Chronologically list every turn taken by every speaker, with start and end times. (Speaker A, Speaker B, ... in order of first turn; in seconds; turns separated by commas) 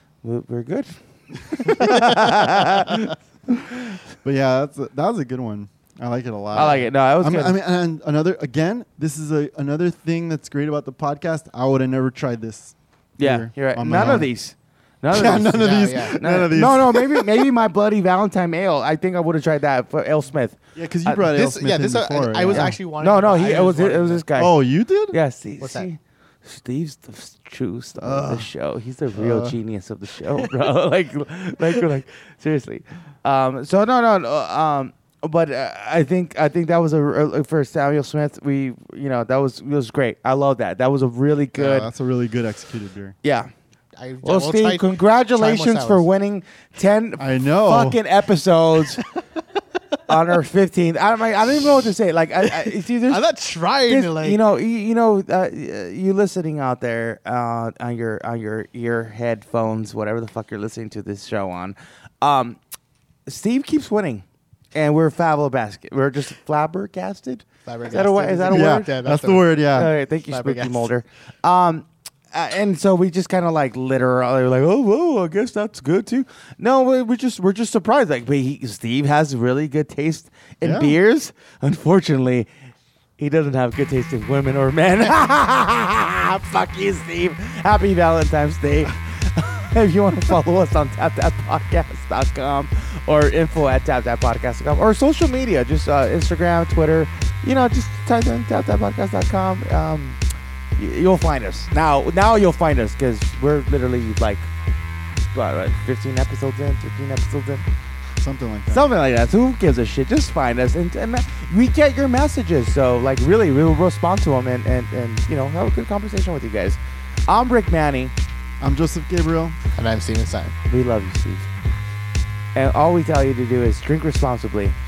Speaker A: 0.2-4.0, Speaker B: 1.6-2.2, Speaker B: 4.2-14.3, Speaker C: 6.5-6.9, Speaker A: 6.5-7.6, Speaker A: 13.2-21.2, Speaker B: 15.1-17.5, Speaker C: 15.6-16.2, Speaker B: 20.7-22.8, Speaker C: 21.3-24.2, Speaker A: 22.5-24.6, Speaker B: 24.3-25.1, Speaker A: 25.1-41.9, Speaker C: 25.6-25.9, Speaker B: 28.0-28.5, Speaker B: 29.1-29.6, Speaker B: 41.5-43.1, Speaker A: 43.2-43.5, Speaker C: 44.0-46.0, Speaker A: 44.2-49.0, Speaker B: 47.2-48.0, Speaker A: 50.1-53.2, Speaker C: 52.6-54.4, Speaker A: 53.9-62.6, Speaker A: 63.3-68.9, Speaker C: 67.6-69.6, Speaker B: 68.5-69.9, Speaker A: 69.7-82.5, Speaker C: 70.3-70.9, Speaker B: 80.6-81.0, Speaker A: 83.2-100.2, Speaker A: 100.8-104.5, Speaker A: 105.3-107.6, Speaker B: 108.2-108.8, Speaker A: 108.7-118.1, Speaker B: 118.6-119.6, Speaker C: 119.7-120.5, Speaker A: 120.7-121.5, Speaker A: 122.5-124.7